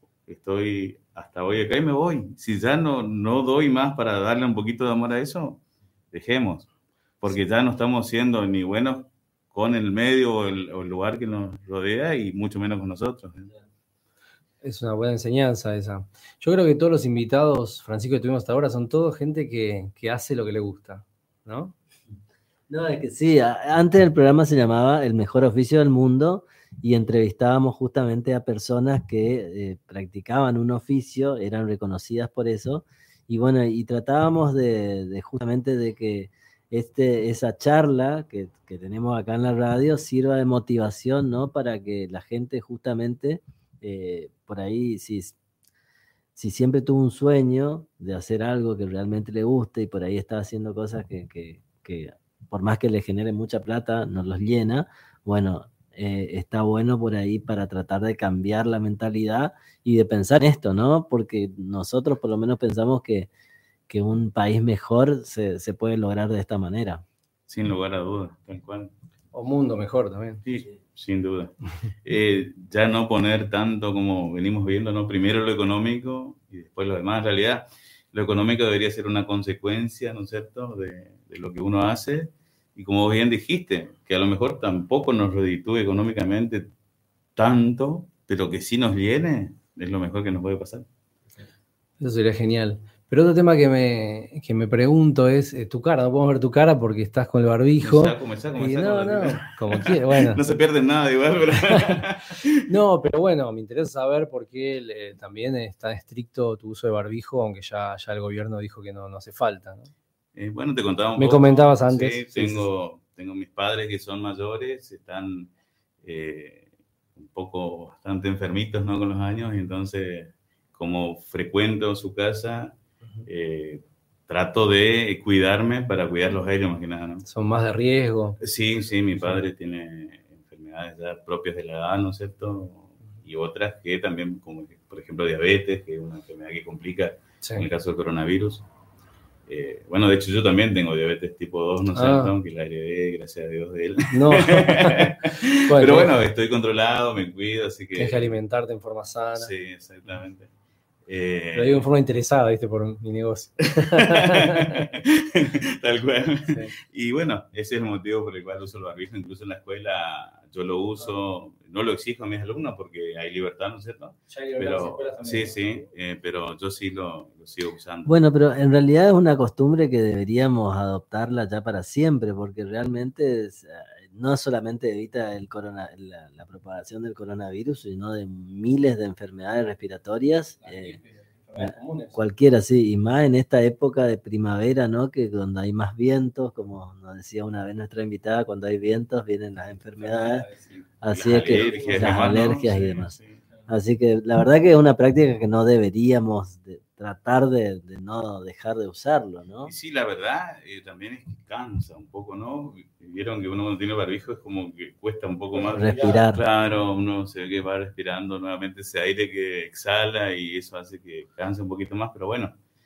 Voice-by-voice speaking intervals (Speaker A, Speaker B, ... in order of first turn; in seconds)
Speaker A: 0.3-5.6, 6.1-6.7, 7.2-13.5, 67.5-68.9, 70.5-86.7, 87.4-90.9, 97.8-102.7, 110.3-115.5, 116.0-127.2, 128.4-138.7, 139.5-148.3, 149.3-150.5, 151.1-151.9, 153.8-168.1, 191.1-193.4, 199.7-212.6
Speaker B: 14.6-21.7, 69.3-70.4, 92.0-100.4, 101.6-102.0, 102.6-109.9, 111.2-112.7, 127.3-128.4, 137.4-137.7, 141.9-142.3, 144.1-146.1, 148.0-149.5, 151.6-154.9, 156.5-156.7, 164.3-165.8, 180.6-182.2, 190.0-190.8, 191.4-192.3, 205.5-206.3
Speaker C: 22.7-45.4, 46.4-63.3, 63.9-67.0, 168.1-181.0, 181.6-190.5, 191.0-193.1, 193.7-199.7, 205.7-206.4